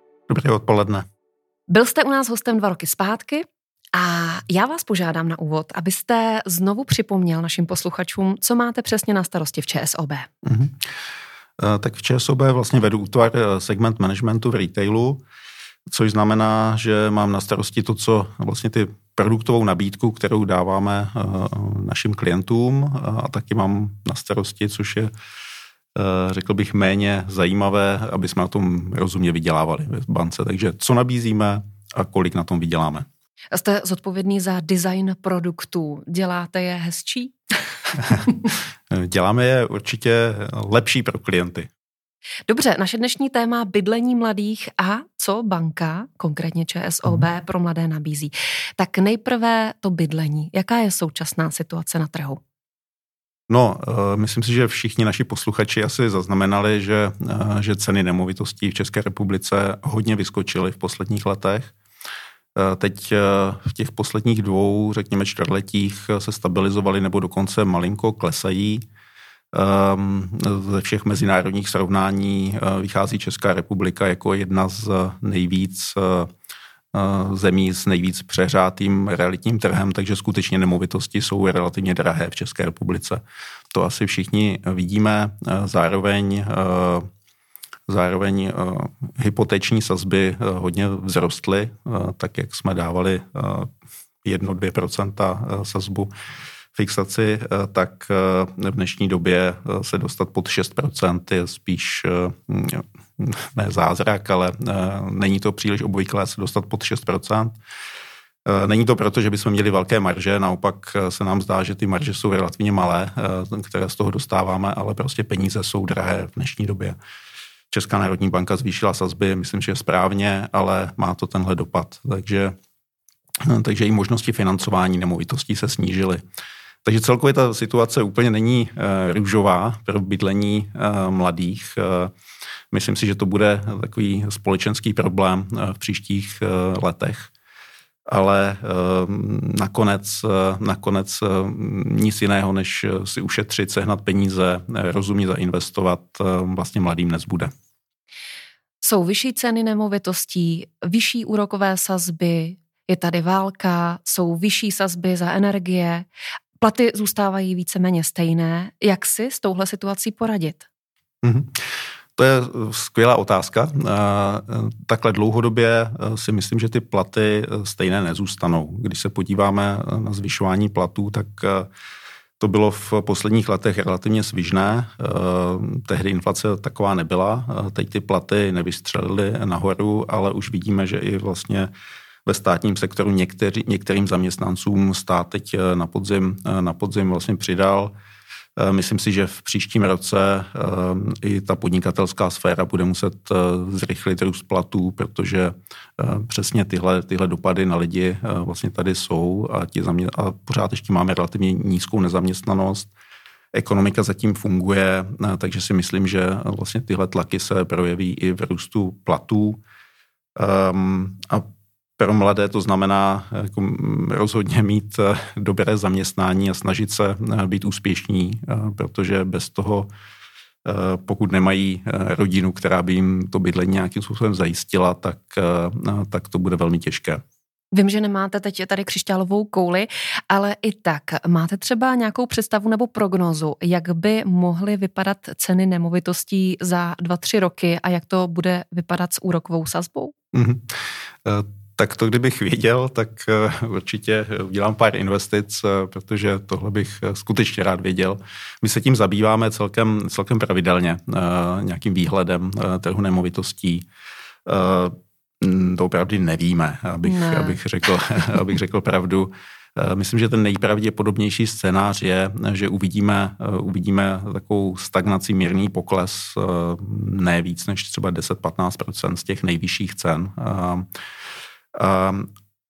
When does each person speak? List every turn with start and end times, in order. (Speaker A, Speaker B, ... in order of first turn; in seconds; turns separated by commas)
Speaker A: 0.3-1.1, Speaker B: 1.7-10.3, Speaker A: 10.4-10.8, Speaker A: 11.6-15.2, Speaker A: 15.9-25.1, Speaker A: 25.9-33.1, Speaker B: 33.5-37.3, Speaker B: 38.1-38.5, Speaker A: 38.9-41.7, Speaker B: 42.5-52.4, Speaker A: 53.5-61.7, Speaker A: 62.5-68.8, Speaker A: 69.5-76.3, Speaker A: 76.9-83.2, Speaker A: 83.7-87.1, Speaker A: 87.9-93.7, Speaker A: 94.2-96.1, Speaker A: 96.7-107.6, Speaker A: 108.5-117.0, Speaker A: 117.7-122.5, Speaker A: 123.4-126.2, Speaker A: 126.8-132.1, Speaker A: 132.7-137.3, Speaker A: 138.1-147.5, Speaker B: 148.8-156.1, Speaker B: 156.6-160.6, Speaker A: 161.2-171.7, Speaker A: 172.4-181.7, Speaker A: 182.2-187.9, Speaker A: 188.6-202.9, Speaker A: 203.5-209.6, Speaker A: 210.3-211.4, Speaker A: 212.0-219.9, Speaker A: 220.6-227.2, Speaker B: 227.7-240.1, Speaker A: 240.3-253.8, Speaker A: 254.4-270.9, Speaker B: 257.0-257.6, Speaker A: 271.7-272.3